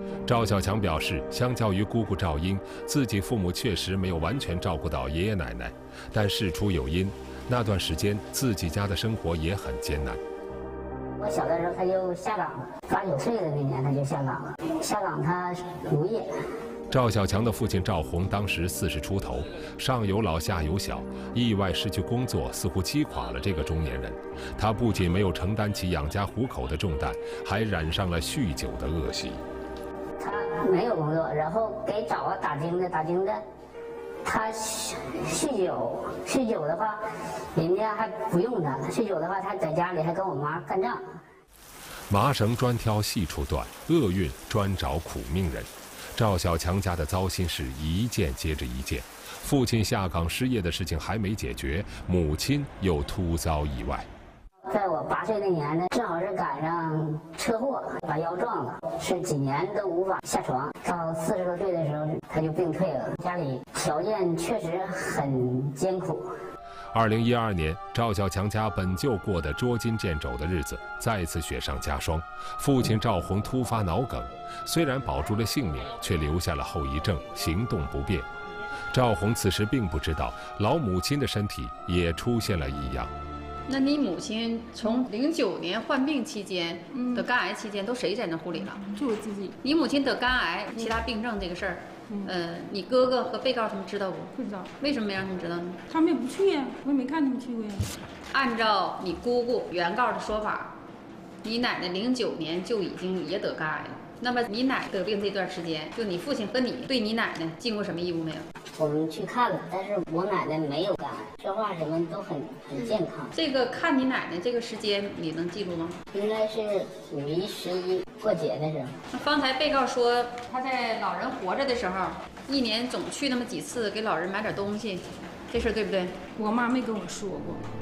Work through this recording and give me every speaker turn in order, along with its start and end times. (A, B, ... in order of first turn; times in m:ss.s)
0:00.2-0:10.2 A
0:11.2-0:16.4 B
0:16.9-0:29.4 A
0:30.2-0:33.4 B
0:34.2-0:37.0 B
0:37.5-0:41.2 B
0:42.1-0:54.1 A
0:54.7-1:06.3 B
1:06.9-1:18.3 A
1:18.9-1:23.1 A
1:23.7-1:28.8 C
1:26.9-1:27.3 D
1:28.6-1:29.6 D
1:29.6-1:35.8 C
1:32.1-1:32.3 D
1:34.3-1:34.7 D
1:35.9-1:37.9 D
1:38.3-1:40.7 C
1:41.4-1:48.4 C
1:48.8-1:53.3 B
1:53.3-1:56.0 C
1:56.1-1:59.0 B
1:59.1-2:06.2 C
2:06.4-2:07.7 D